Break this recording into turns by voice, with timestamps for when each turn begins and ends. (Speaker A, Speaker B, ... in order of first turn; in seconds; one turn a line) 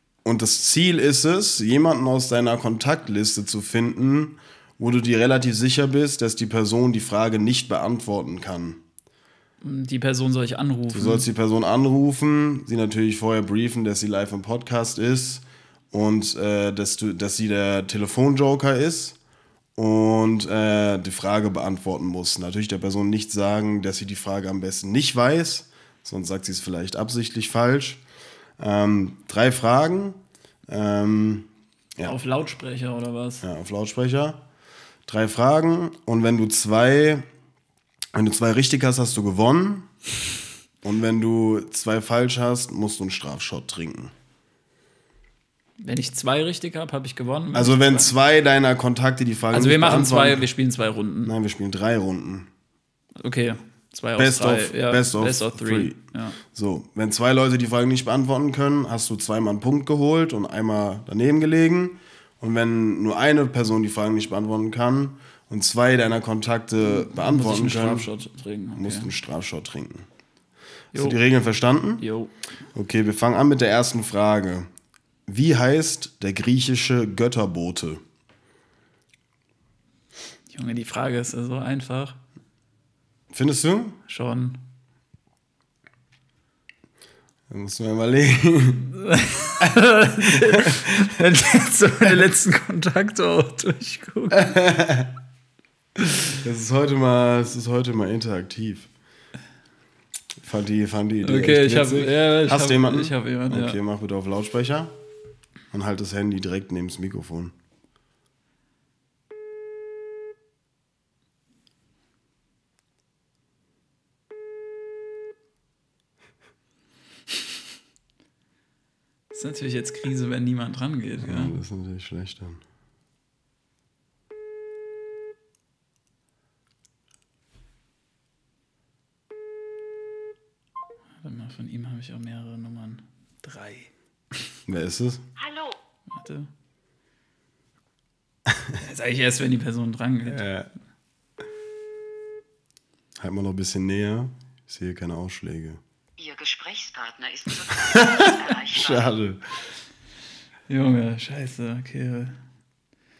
Speaker A: 0.2-8.8
Speaker B: 9.6-11.3
Speaker A: 10.9-19.2
Speaker A: 19.8-28.0
Speaker A: 28.6-32.2
Speaker B: 32.0-33.4
Speaker A: 33.4-34.4
Speaker A: 35.1-37.3
Speaker A: 38.1-39.9
Speaker A: 40.8-44.1
Speaker B: 45.8-48.1
Speaker A: 47.5-50.5
Speaker B: 49.5-51.3
Speaker A: 51.2-52.5
Speaker B: 53.2-56.4
Speaker A: 54.2-68.1
Speaker B: 66.8-69.1
Speaker A: 68.7-70.1
Speaker A: 70.9-72.1
Speaker B: 70.9-71.2
Speaker B: 72.0-72.3
Speaker A: 72.7-74.7
Speaker A: 75.3-78.0
Speaker B: 80.5-82.2
Speaker A: 83.3-84.0
Speaker B: 84.1-84.6
Speaker A: 87.5-88.9
Speaker B: 88.9-94.6
Speaker A: 90.3-91.0
Speaker A: 94.3-95.1
Speaker A: 96.4-98.9
Speaker A: 100.4-105.0
Speaker B: 101.2-103.8
Speaker A: 105.7-107.5
Speaker B: 119.3-121.6
Speaker A: 121.2-122.6
Speaker B: 131.2-133.9
Speaker A: 134.7-135.2
Speaker C: 135.4-135.8
Speaker B: 136.1-136.5
Speaker B: 138.8-140.5
Speaker A: 140.3-140.7
Speaker A: 143.2-145.8
Speaker C: 146.2-149.1
Speaker A: 147.7-149.4
Speaker B: 150.7-152.4